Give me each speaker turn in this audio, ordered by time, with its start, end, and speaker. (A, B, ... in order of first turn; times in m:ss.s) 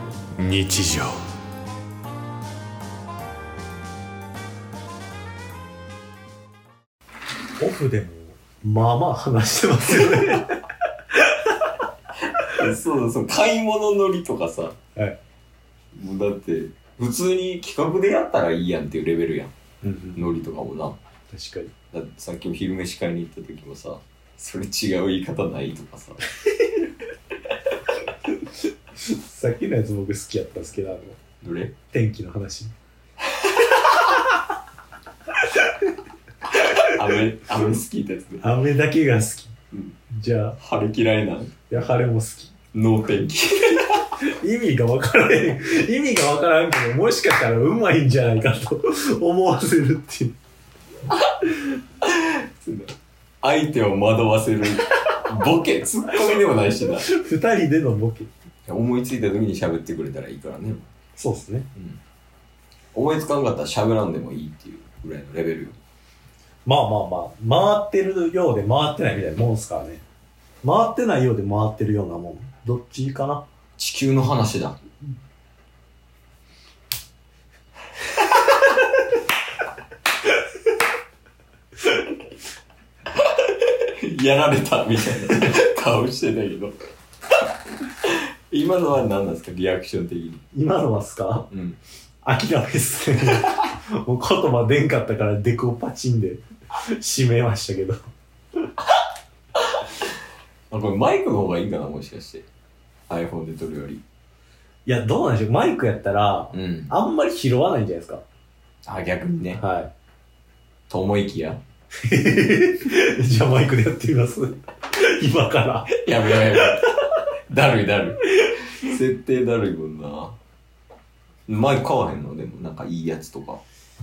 0:00.4-0:01.2 A
0:07.6-0:10.6 A
0:12.5-0:14.8 B
0:15.9-0:19.5 B
0:19.8-0:20.3 A
0:20.1-0:21.0 B
0:21.3-0:21.7 A
0:21.9-0:26.2 B
0:29.0-0:31.2 A
0:31.4-0:31.7 B
0:31.9-0:32.7 A
0:33.3-0:33.9 B
0:36.6-0:38.4 B
0:38.4-0:39.5 A
0:40.1-0:40.6 A
0:40.6-0:41.7 B
0:41.7-0:42.5 A
0:42.7-0:44.0 B
0:44.4-0:50.3 A
0:52.0-0:57.1 B
0:57.0-0:58.3 A
0:58.7-1:00.9 B
1:01.2-1:01.7 A
1:02.9-1:05.8 B
1:06.6-1:10.0 A
1:10.6-1:13.4 A
1:13.8-1:14.8 B
1:23.1-1:26.7 B
1:28.0-1:30.4 B
1:30.5-1:31.5 A
1:31.5-1:31.8 B
1:32.2-1:38.0 A
1:39.7-1:40.0 B
1:40.7-1:42.4 B
1:43.1-1:44.0 B
1:44.8-1:48.2 A
1:46.5-1:46.9 B
1:48.8-1:49.6 B
1:49.6-1:49.9 A
1:50.9-1:51.6 B
1:52.0-1:56.8 A
1:55.9-1:56.9 B
1:57.5-2:00.4 B
2:01.5-2:03.6 B